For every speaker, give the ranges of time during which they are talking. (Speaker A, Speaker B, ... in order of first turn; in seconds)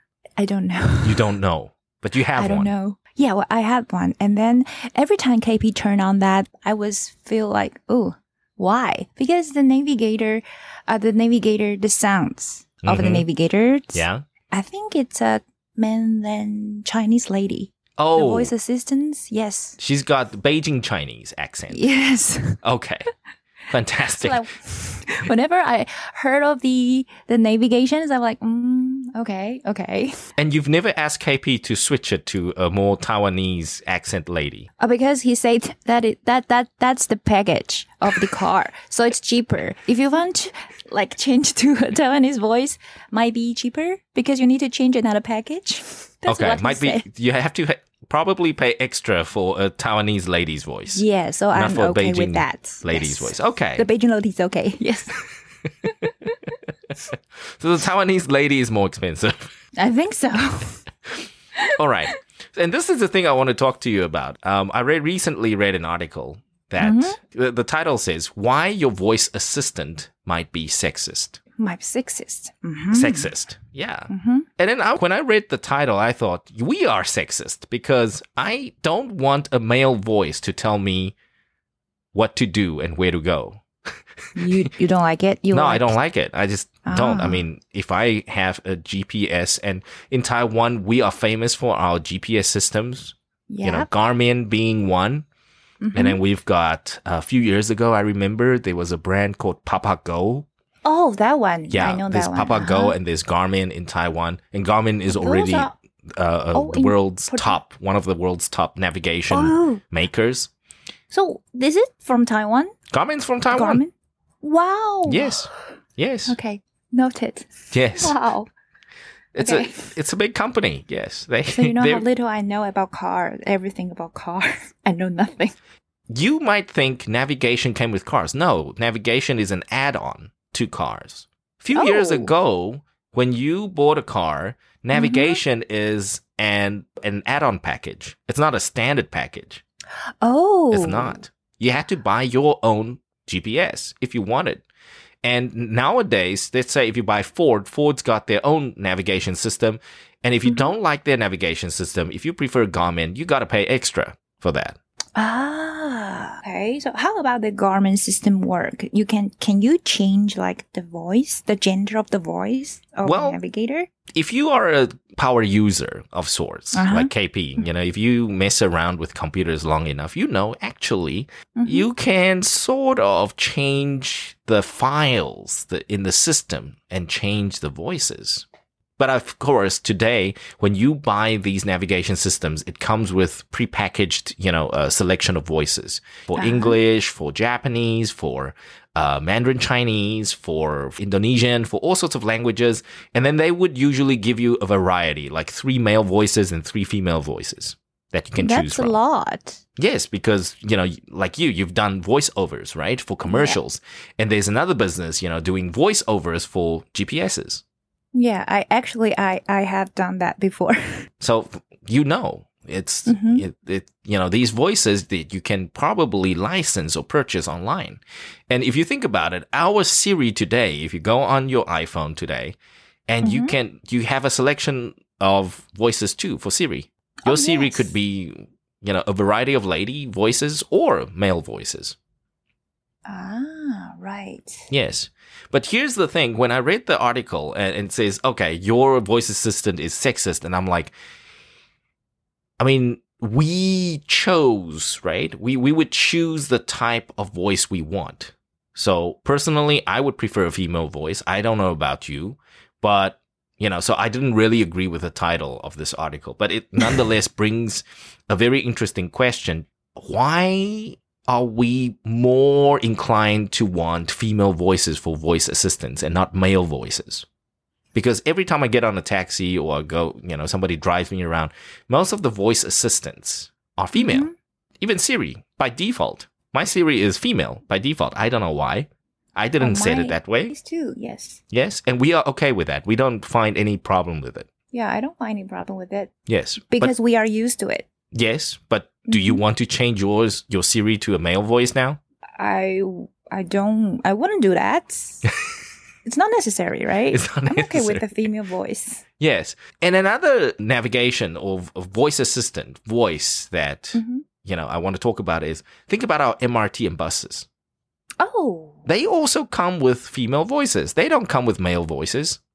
Speaker A: 0.4-1.4, 2.4-19.8, 21.7-22.6, 24.2-30.1, 34.8-47.1, 50.9-55.2, 59.8-60.8, 66.8-67.2, 71.6-73.3, 74.1-74.5, 84.4-86.0, 86.9-87.4, 93.5-93.9, 95.8-96.2, 100.8-103.0, 105.1-105.7, 106.5-107.6, 109.3-109.8, 111.1-112.7, 113.5-115.5, 116.3-118.5, 119.4-119.9, 121.5-125.6, 131.7-132.3, 134.9-135.4, 140.2-141.2, 155.2-163.9, 166.7-167.1, 171.6-171.9, 186.4-186.8, 198.4-199.6, 203.3-203.6, 208.1-211.1, 213.1-213.4, 223.2-223.5, 227.3-227.9, 233.1-234.7, 273.9-274.3, 279.6-281.4, 284.7-286.1, 286.7-287.9, 289.1-289.4, 292.4-295.2, 296.1-299.0, 303.9-304.2, 308.2-308.9
Speaker B: 1.0-2.7, 12.8-13.3, 13.9-14.2, 18.0-18.5, 19.8-21.8, 22.6-23.1, 23.7-24.4, 30.4-34.7, 46.3-53.9, 57.6-59.5, 61.8-71.4, 72.9-81.2, 82.1-83.6, 85.5-95.3, 95.9-100.5, 101.7-110.5, 112.9-113.8, 115.1-116.4, 117.7-118.2, 119.3-122.0, 126.1-139.6, 140.7-144.6, 145.2-154.8, 163.0-163.4, 164.2-178.5, 179.0-199.0, 199.8-207.6, 211.2-222.6, 223.1-232.0, 234.7-240.9, 242.6-267.3, 267.9-274.3, 274.8-280.5, 281.5-284.5, 286.3-286.9, 288.1-292.0, 297.1-298.1, 299.2-307.5, 308.9-312.4